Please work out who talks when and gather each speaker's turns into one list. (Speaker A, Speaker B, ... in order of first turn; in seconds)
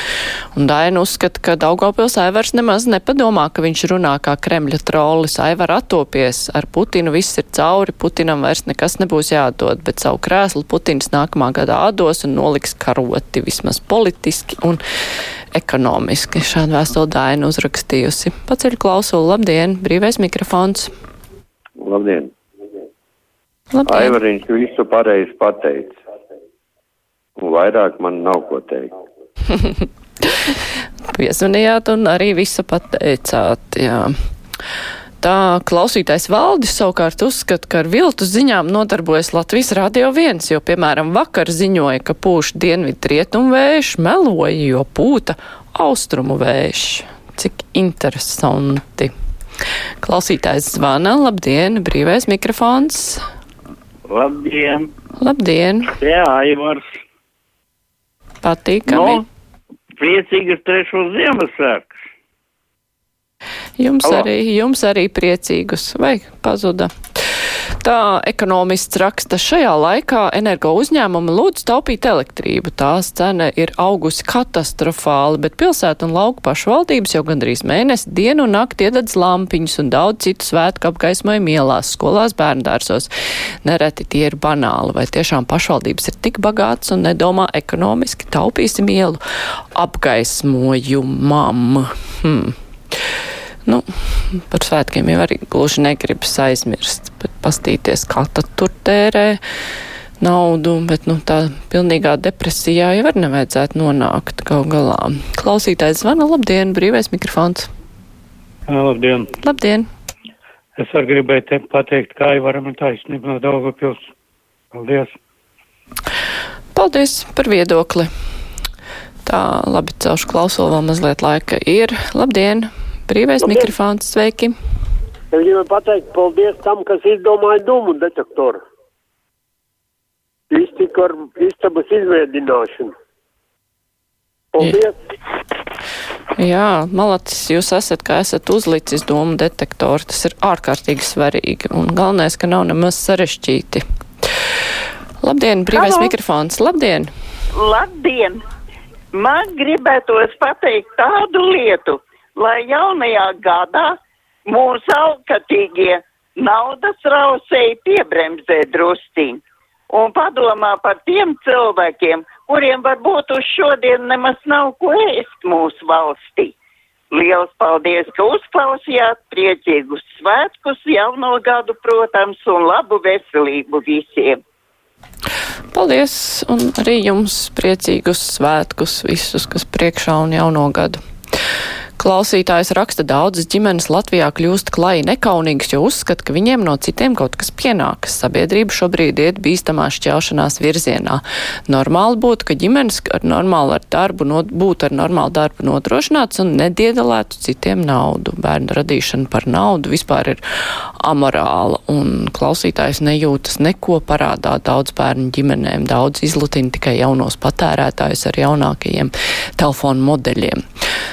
Speaker A: 0.5-14.8, 15.5-20.9, 23.7-24.2, 31.1-34.1, 35.2-49.1, 50.0-53.2, 55.2-55.9, 58.4-59.2, 63.8-83.1, 83.6-89.2, 89.7-92.5, 93.6-99.4, 100.2-107.7, 109.4-109.9, 116.7-118.1, 119.2-124.5, 136.4-143.8, 145.2-147.1, 175.7-181.0, 182.0-200.4, 201.0-210.6
Speaker B: 21.8-22.3, 23.9-25.9, 27.4-28.9
Speaker C: 54.1-54.9, 56.0-56.8, 58.9-59.2, 60.0-61.9
Speaker D: 108.7-109.2, 110.8-114.0, 114.7-115.1
Speaker E: 123.4-123.7, 125.3-128.6, 130.5-132.9, 134.5-134.9
Speaker F: 145.7-146.1, 147.5-148.4, 149.1-166.5, 167.1-174.4